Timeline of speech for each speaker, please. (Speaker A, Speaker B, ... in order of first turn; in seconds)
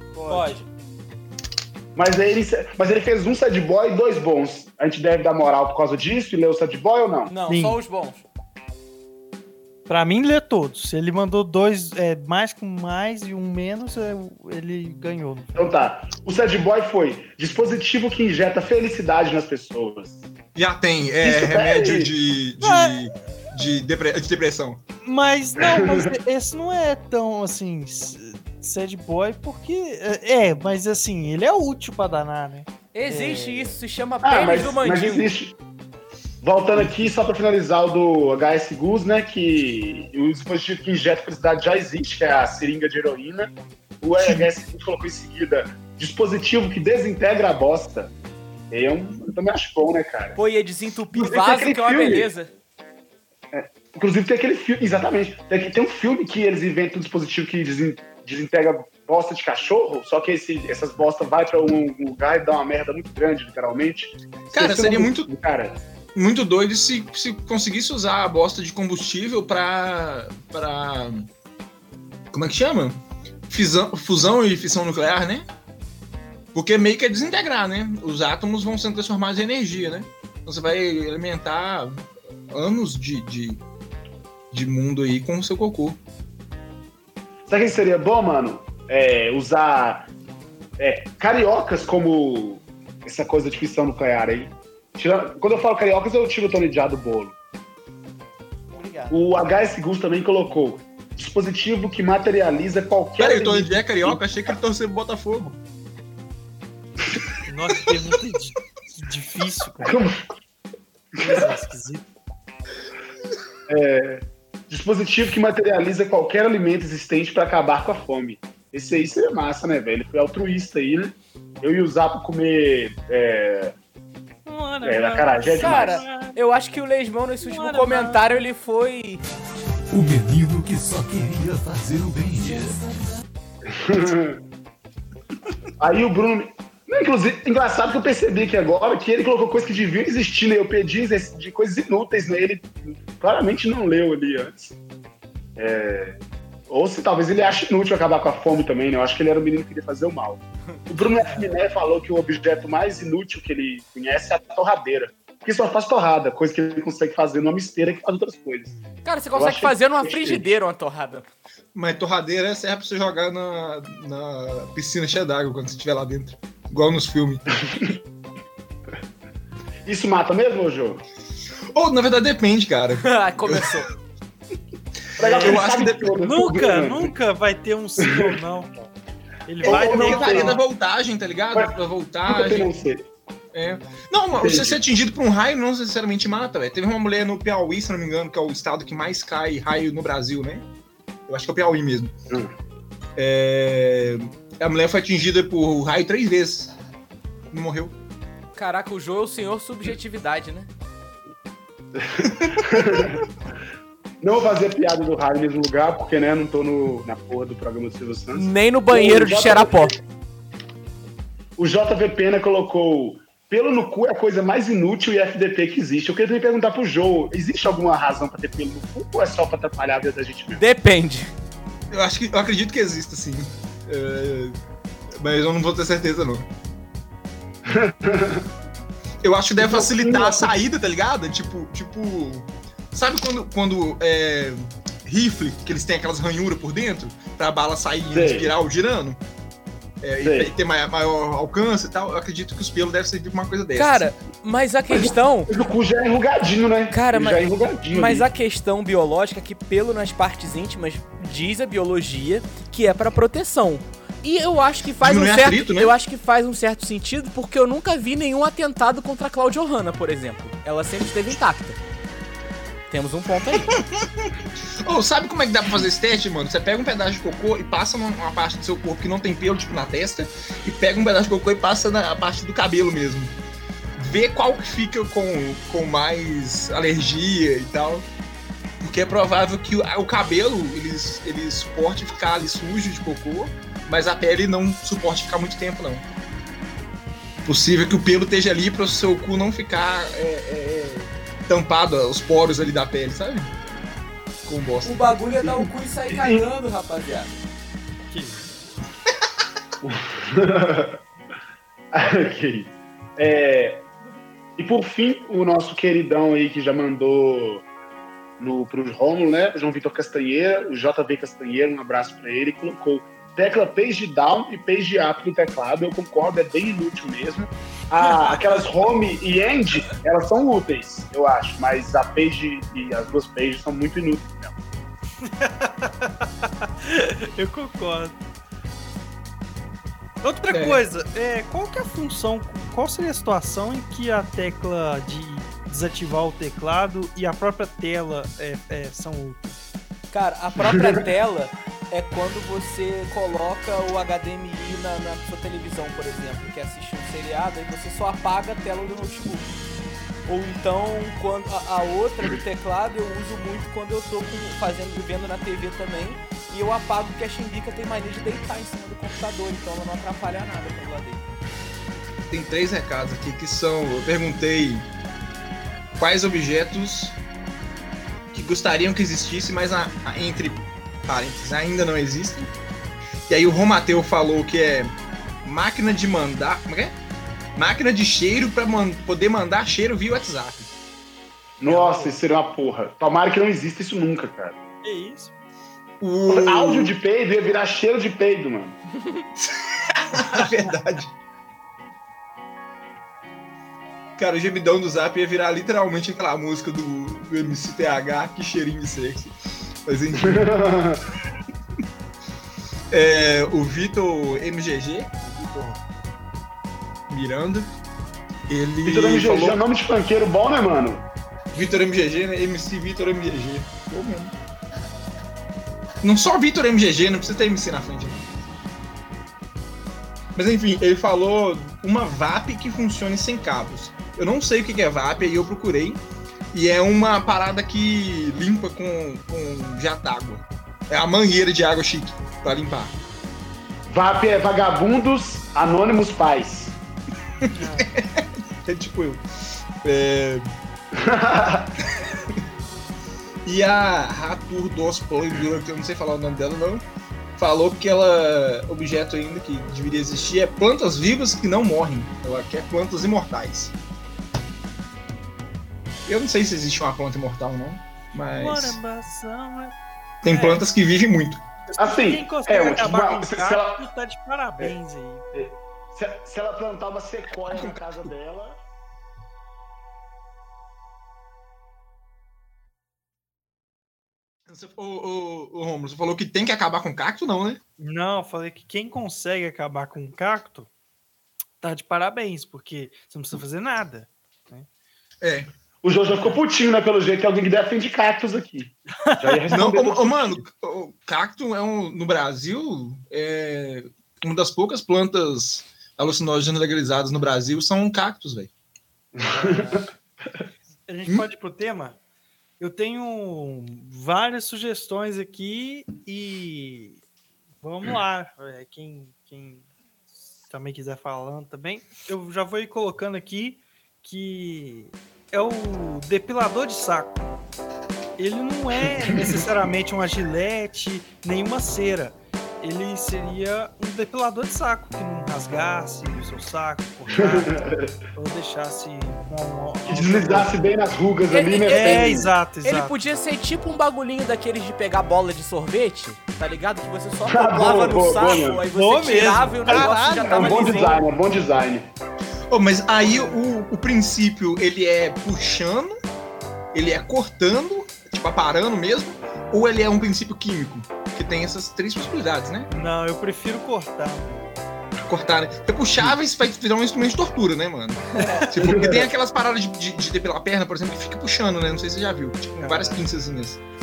Speaker A: 0.1-0.6, 7.5-7.8, 9.9-15.6, 22.6-23.1, 25.0-33.7, 98.7-99.3, 107.5-110.0, 111.2-112.1, 124.5-126.4, 127.5-128.2, 176.2-178.9, 179.5-180.6, 298.1-298.4, 325.2-328.2, 330.2-339.6, 381.6-382.2, 384.8-385.3, 437.5-437.9, 458.4-460.6, 461.7-465.3, 477.8-480.7, 481.6-484.7, 489.1-489.4, 499.3-499.9, 500.9-502.0, 502.6-507.0, 507.6-509.7, 510.5-517.2, 518.2-530.6, 531.6-533.0, 538.7-541.0, 543.0-543.4, 552.7-554.6, 562.6-563.0
Speaker B: 0.3-0.7, 7.3-8.2, 32.9-35.3, 50.4-52.5, 125.6-129.2, 159.1-161.3, 173.0-173.9, 198.6-200.7, 208.3-209.9, 220.5-221.3, 243.8-245.5, 246.9-261.8, 262.9-263.8, 294.8-297.4, 340.1-349.5, 350.3-361.2, 531.3-541.0
Speaker C: 1.9-7.3, 15.6-20.2, 21.2-22.1, 25.6-26.1, 34.2-35.6, 36.4-48.1, 48.7-50.4, 51.1-52.3, 53.5-65.8, 87.5-90.1, 90.8-97.3, 99.1-104.2, 109.8-110.2, 113.7-123.8, 124.8-126.0, 133.7-134.4, 135.8-144.8, 145.6-146.2, 146.7-158.8, 159.3-160.5, 167.6-168.0, 169.8-171.0, 175.2-177.1, 179.7-180.6, 182.3-183.1, 184.3-184.8, 201.9-203.2, 204.2-210.0, 211.6-220.6, 227.7-228.5, 229.6-230.5, 238.1-238.5, 240.2-240.5, 244.9-248.3, 296.1-296.5, 299.8-301.0, 301.9-303.8, 304.6-307.6, 308.4-324.6, 340.6-341.0, 381.6-384.6, 386.3-388.8, 400.1-401.1, 408.8-411.1, 433.9-436.8, 440.9-441.7, 461.8-463.8, 465.3-468.6, 485.8-490.4, 499.2-500.4, 527.1-527.9, 529.9-532.3, 537.2-538.6, 539.7-541.9, 558.5-559.1
Speaker D: 20.6-24.8, 36.8-37.1, 44.2-44.5, 64.5-65.3, 66.2-71.3, 72.3-75.5, 76.5-83.6, 84.5-86.0, 103.2-105.6, 161.8-167.4, 171.7-173.7, 175.1-176.2, 179.6-182.7, 183.5-190.6, 191.3-192.1, 193.2-196.8, 197.5-197.9, 202.2-203.2, 221.9-224.6, 225.2-226.5, 229.2-239.2, 240.0-244.1, 255.0-255.9, 263.7-264.3, 264.8-273.3, 274.0-278.1, 278.8-286.0, 287.4-293.5, 294.4-295.2, 330.5-330.8, 362.3-364.9, 366.0-367.2, 368.3-372.5, 373.3-374.9, 375.4-377.0, 377.6-380.8, 386.0-386.9, 389.4-391.1, 394.2-399.3, 399.9-400.6, 402.9-405.8, 407.1-407.7, 408.5-409.6, 411.5-414.3, 416.0-418.2, 420.4-426.0, 426.5-432.9, 437.4-439.2, 439.8-440.4, 443.4-446.8, 447.4-453.7, 456.1-458.8, 460.2-461.4, 467.5-468.1, 474.5-477.6, 485.2-485.5, 489.5-498.5, 542.5-546.0, 546.7-552.7, 555.0-563.6
Speaker E: 129.9-132.9